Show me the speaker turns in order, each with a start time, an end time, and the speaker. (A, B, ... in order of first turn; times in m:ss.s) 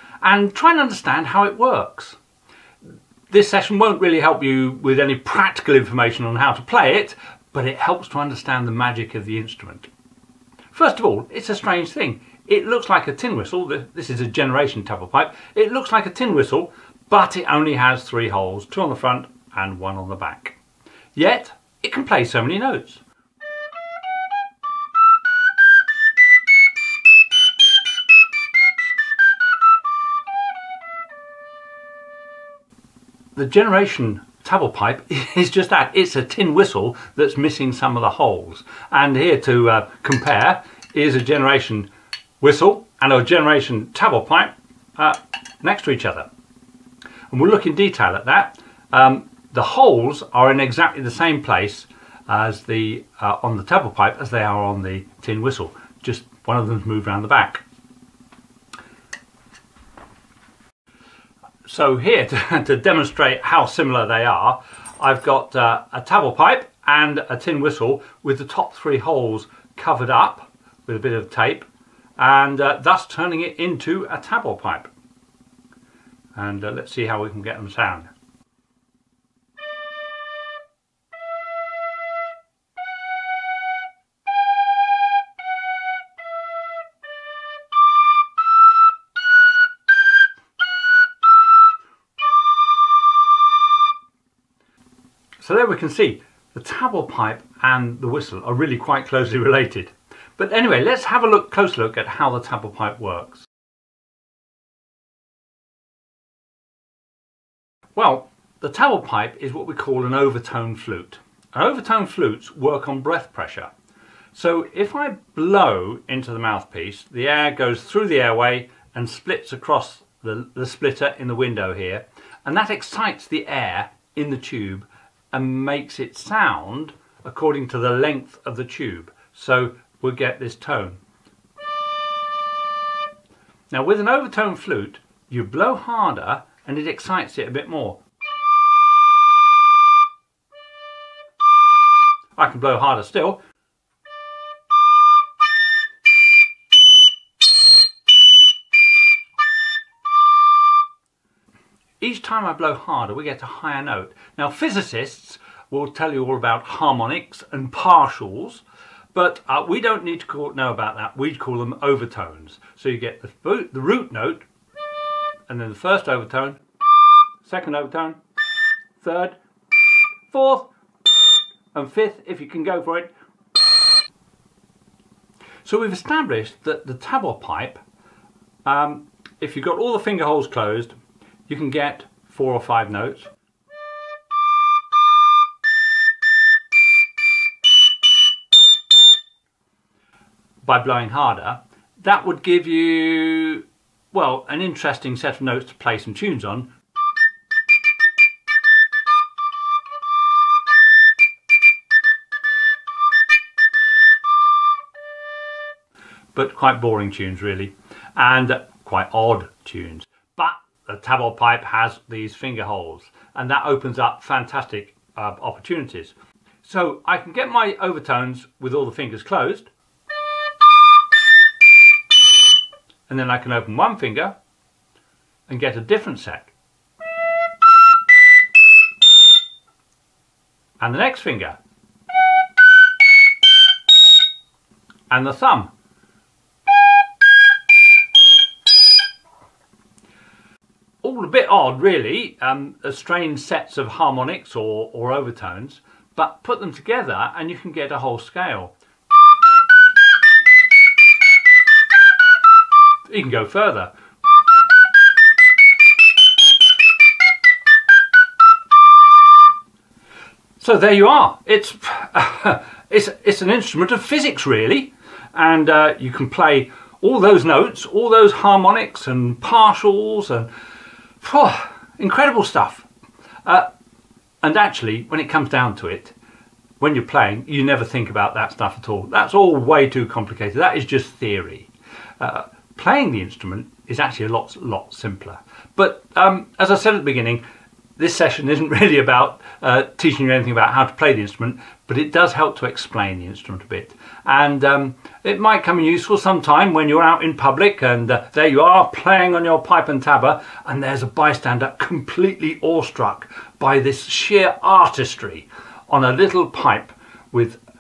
0:00.2-0:02.2 A
0:03.3-0:09.9 A
0:10.7-0:20.6 A
0:21.2-0:23.0 A
0:33.4-0:41.9 A
0:42.4-0:46.3 A
0:47.3-0:57.6 A
1:01.7-1:14.9 A
1:16.4-1:18.1 A
1:35.4-1:43.5 A
1:48.0-1:53.7 A
1:54.3-2:11.0 A
2:13.7-2:18.0 A
2:22.4-2:23.4 A
2:32.0-2:44.5 A
2:45.5-2:46.6 A
2:47.4-2:48.2 A
2:49.0-2:49.4 A
2:50.3-2:50.7 A
2:51.7-2:53.1 A
2:55.6-2:57.8 A
2:58.6-3:01.0 A
3:01.5-3:03.3 A
3:10.6-3:16.7 A
3:26.4-3:39.7 A
3:43.1-3:44.4 A
3:45.5-3:46.5 A
3:50.8-3:51.6 A
3:55.1-3:55.7 A
4:01.0-4:08.7 A
4:13.1-4:13.9 A
4:20.6-4:30.5 A
4:31.2-4:32.9 A
4:34.4-4:36.2 A
4:36.8-4:47.4 A
4:48.0-5:07.6 A